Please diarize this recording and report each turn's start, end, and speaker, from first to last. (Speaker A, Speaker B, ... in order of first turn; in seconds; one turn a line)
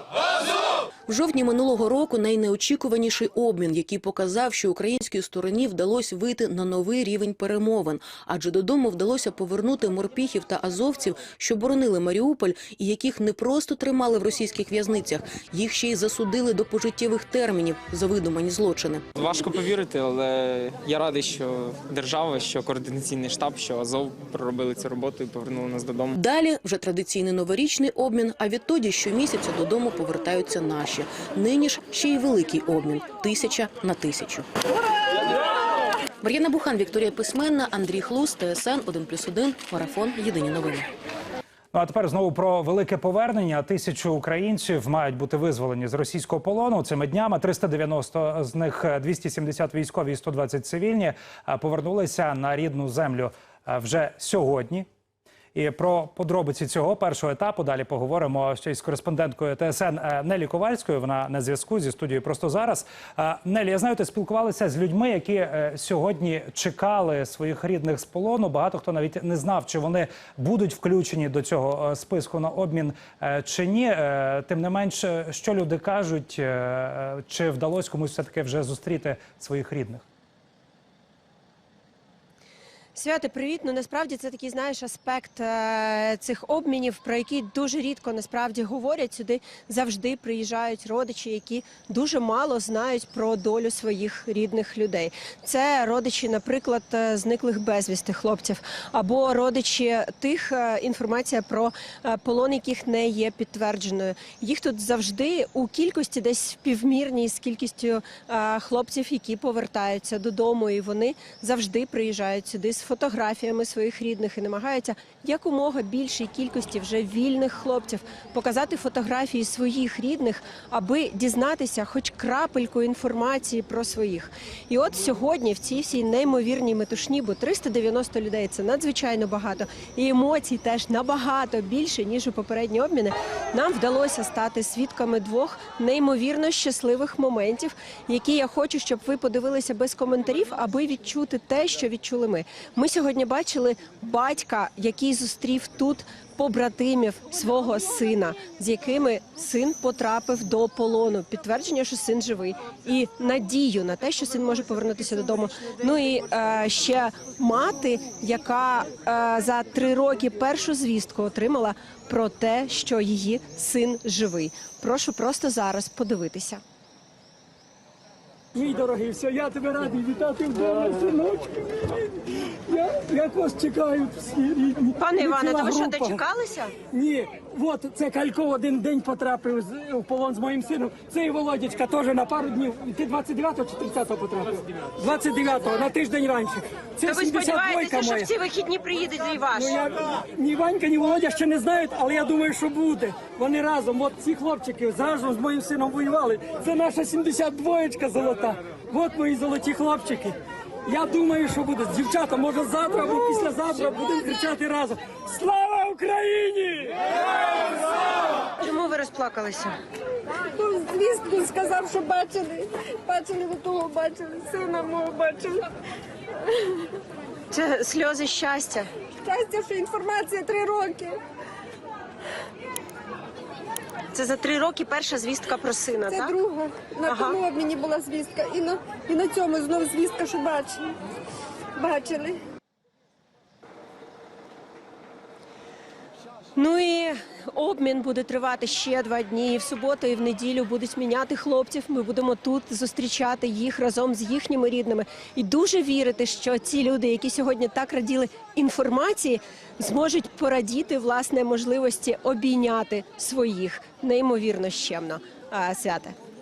Speaker A: 1.1-19.1
Speaker B: 19.1-26.1
Speaker A: 26.1-34.5
Speaker A: 36.2-40.9
Speaker C: 41.7-54.9
Speaker C: 55.5-80.0
Speaker D: 83.0-166.6
Speaker E: 168.5-176.2
Speaker D: 175.0-176.7
Speaker E: 176.9-188.3
Speaker E: 189.5-207.2
Speaker D: 208.6-209.7
Speaker F: 210.5-215.7
Speaker D: 217.5-218.9
Speaker F: 219.2-221.2
Speaker D: 224.1-226.3
Speaker F: 226.0-230.8
Speaker D: 227.1-227.4
Speaker F: 231.8-232.4
Speaker D: 236.6-256.1